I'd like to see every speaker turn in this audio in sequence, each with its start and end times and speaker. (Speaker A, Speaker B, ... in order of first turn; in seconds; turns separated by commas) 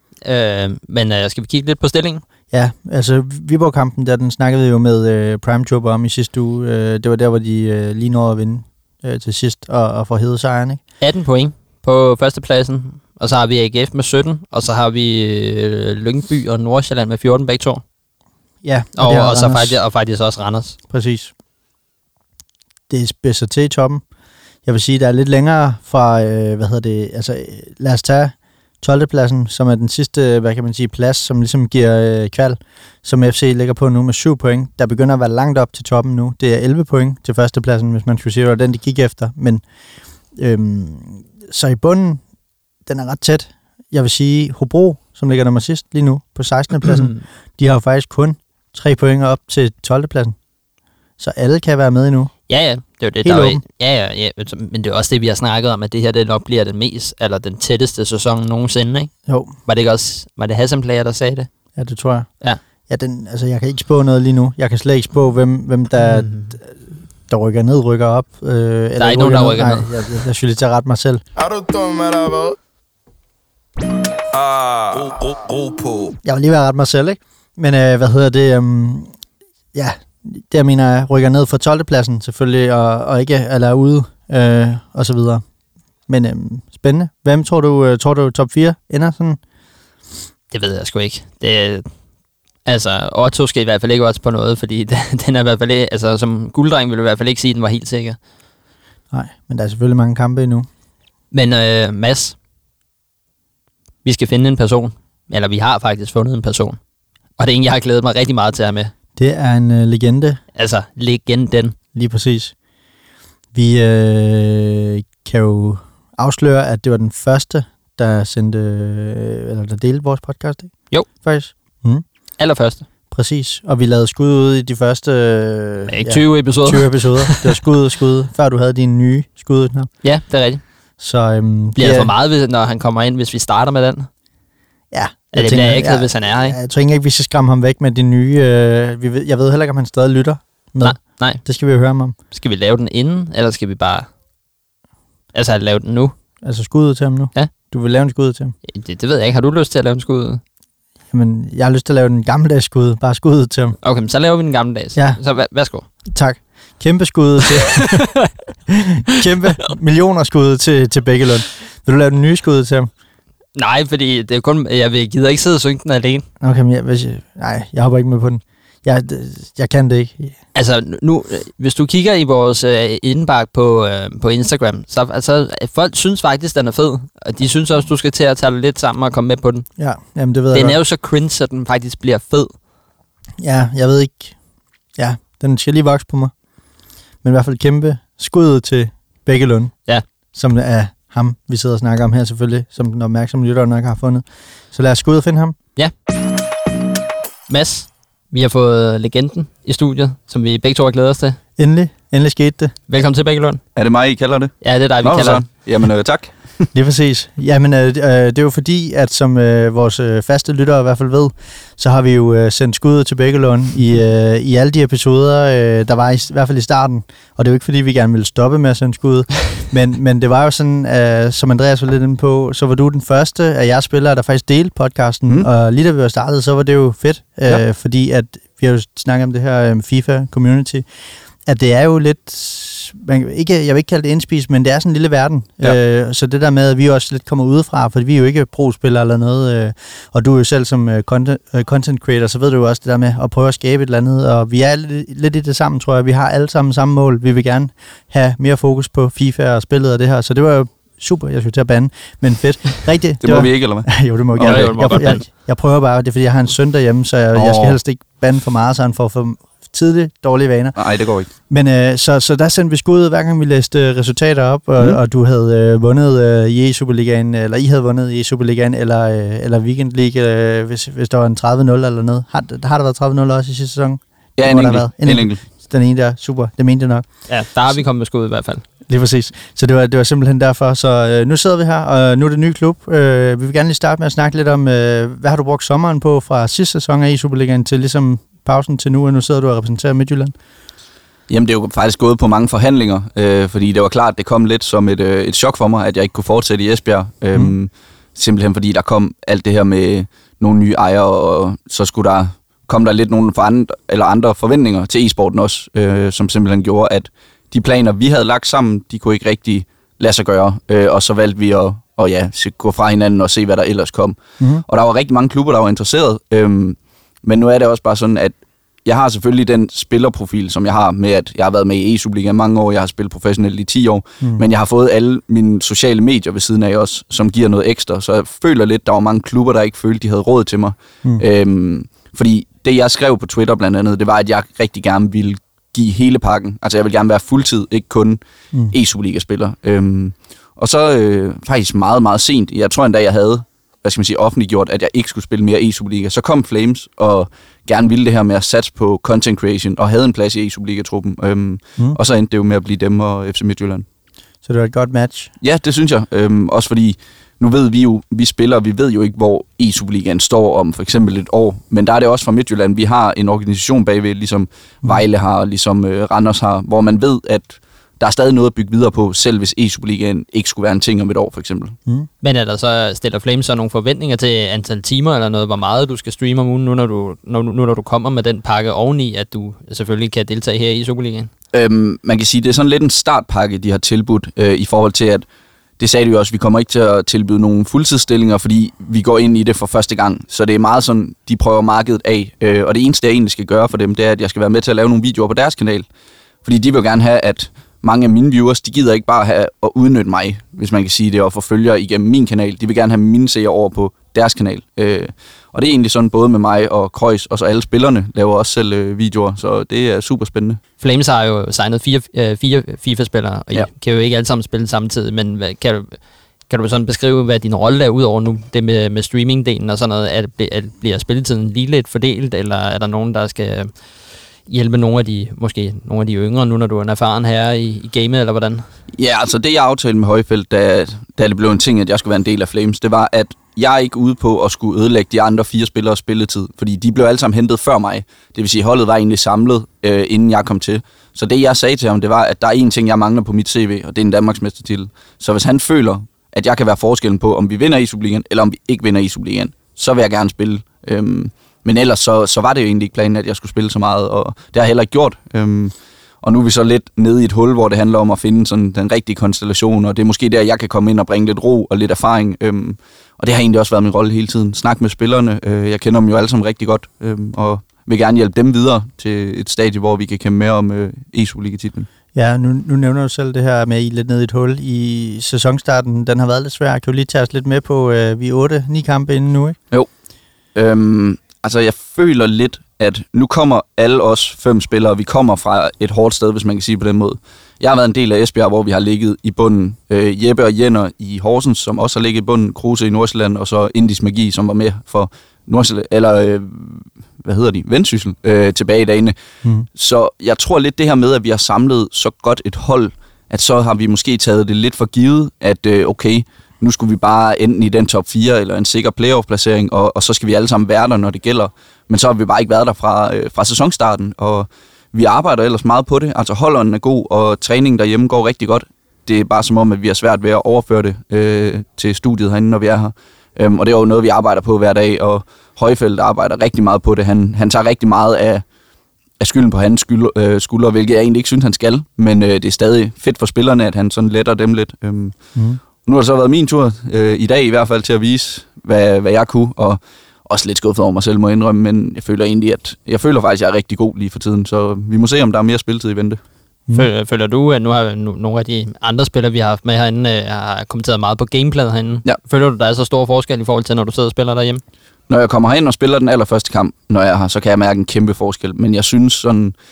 Speaker A: 0.2-2.2, Speaker B: 2.5-10.8, Speaker A: 11.0-17.8, Speaker B: 18.6-19.8, Speaker A: 18.9-20.8, Speaker B: 20.9-21.3, Speaker B: 22.9-24.0, Speaker B: 24.6-39.6, Speaker B: 40.3-42.2, Speaker B: 42.9-50.4, Speaker A: 46.8-47.2, Speaker B: 51.2-52.3, Speaker A: 52.5-59.1, Speaker B: 53.2-53.6, Speaker B: 59.2-59.5, Speaker A: 59.6-61.5, Speaker B: 61.7-62.3, Speaker B: 62.9-66.8, Speaker A: 66.0-66.6, Speaker B: 67.3-71.2, Speaker A: 69.0-70.2, Speaker C: 71.4-72.5, Speaker C: 74.3-76.2, Speaker B: 76.2-79.1, Speaker B: 79.7-85.4, Speaker B: 86.1-89.4, Speaker A: 90.5-91.9, Speaker A: 92.6-98.2, Speaker B: 99.1-100.7, Speaker A: 101.3-102.3, Speaker A: 104.0-106.8, Speaker A: 107.4-108.9, Speaker B: 109.2-110.4, Speaker A: 110.5-111.8, Speaker B: 111.9-112.5, Speaker B: 113.5-122.0, Speaker A: 122.4-122.8, Speaker B: 123.1-129.9, Speaker A: 125.9-127.6, Speaker A: 130.0-130.6, Speaker B: 131.0-132.1, Speaker A: 131.7-134.1, Speaker B: 134.9-142.2, Speaker A: 135.3-136.6, Speaker A: 140.8-141.4, Speaker A: 142.3-144.1, Speaker A: 145.3-146.1, Speaker B: 146.4-148.5, Speaker A: 148.7-150.4, Speaker B: 151.1-153.8, Speaker A: 153.8-155.8, Speaker B: 154.9-155.2, Speaker B: 156.0-158.2, Speaker B: 158.7-162.9, Speaker A: 163.6-166.2, Speaker B: 166.4-170.3, Speaker A: 170.5-179.7, Speaker B: 179.8-180.8, Speaker A: 180.5-182.5, Speaker B: 183.4-184.4, Speaker B: 184.9-186.3, Speaker B: 187.2-195.6, Speaker A: 197.5-201.4, Speaker B: 201.6-202.7, Speaker A: 202.9-203.6, Speaker D: 203.7-206.6, Speaker A: 204.6-205.4, Speaker B: 206.7-230.9, Speaker B: 231.4-260.8, Speaker D: 253.2-255.2, Speaker A: 254.4-255.2, Speaker D: 257.3-257.8, Speaker D: 260.8-261.3, Speaker B: 261.3-277.3, Speaker D: 274.4-275.4, Speaker A: 277.3-278.6, Speaker B: 278.9-290.3, Speaker D: 291.3-353.8, Speaker B: 354.4-355.3, Speaker D: 355.4-371.8, Speaker A: 372.2-381.3, Speaker D: 381.5-385.2, Speaker D: 385.8-395.9, Speaker D: 396.4-410.6, Speaker A: 410.8-416.0, Speaker A: 416.5-423.7, Speaker A: 424.5-428.6, Speaker D: 428.9-471.9, Speaker B: 472.1-479.6, Speaker D: 480.5-499.1, Speaker D: 499.7-528.4, Speaker D: 529.2-546.2, Speaker B: 535.3-535.6, Speaker A: 546.7-554.6, Speaker D: 555.1-559.5